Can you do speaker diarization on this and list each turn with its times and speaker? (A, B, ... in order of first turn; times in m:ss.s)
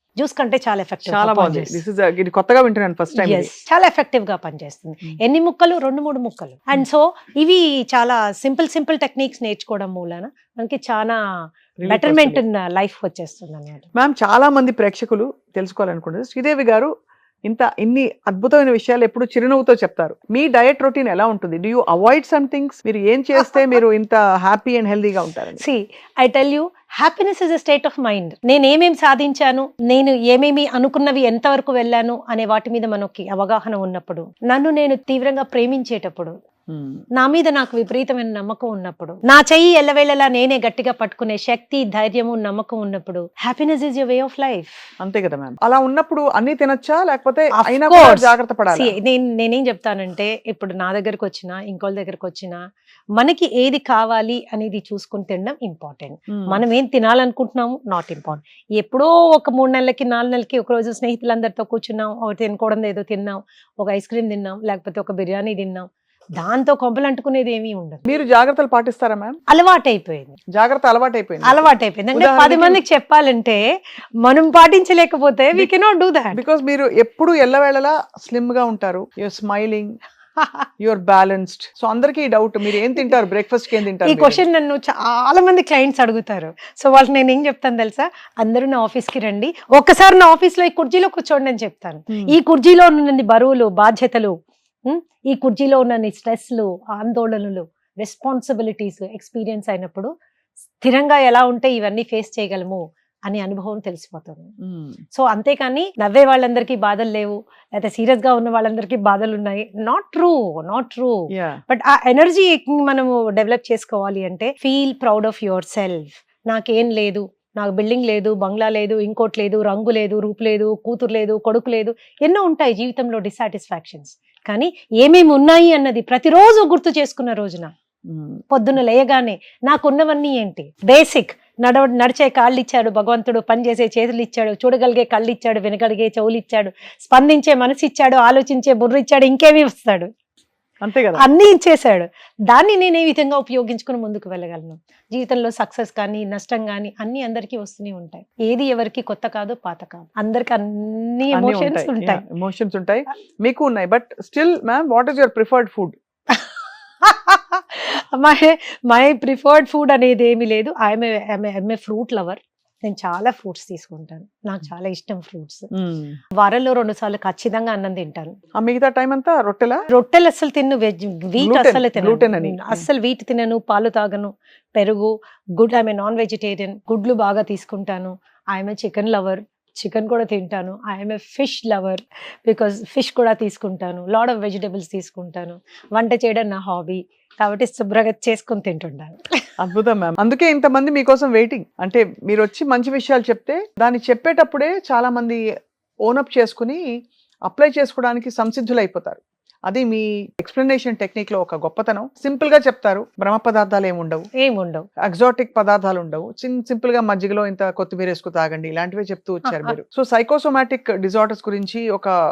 0:00.2-0:01.8 A
0:01.0-0:03.5 B
0:03.1-0:11.2 A
0:11.8-0:12.4 B
0:11.9-0:13.9 A
0:13.9-0:16.9 B
0:17.4-0:25.6 B
0:23.4-0:23.8 A
0:25.6-0:36.4 A
0:36.7-0:37.0 B
0:37.1-0:44.8 A
0:45.0-0:49.0 B
0:47.5-0:52.6 A
0:53.2-1:08.0 A
0:56.3-0:56.6 B
1:08.0-1:09.4 B
1:09.5-1:10.4 A
1:10.5-1:12.8 B
1:11.4-1:13.6 A
1:14.2-1:16.4 A
1:16.3-1:20.0 B
1:20.4-1:20.7 A
1:20.8-1:24.4 B
1:24.0-1:40.1 A
1:32.1-1:32.4 B
1:40.8-1:44.5 A
1:44.6-1:45.0 B
1:45.1-2:07.7 A
1:51.3-1:51.6 B
2:08.1-2:08.4 B
2:08.5-2:20.1 A
2:20.8-2:21.2 B
2:21.2-2:32.2 A
2:31.3-2:36.0 B
2:36.3-2:45.7 A
2:45.7-2:46.2 B
2:46.4-2:48.4 A
2:48.6-2:49.8 B
2:49.9-3:09.5 A
2:51.4-2:52.9 B
3:09.6-3:15.4 B
3:16.0-3:16.8 B
3:17.4-3:24.3 B
3:24.4-3:24.8 A
3:25.0-3:32.1 B
3:29.4-3:29.7 A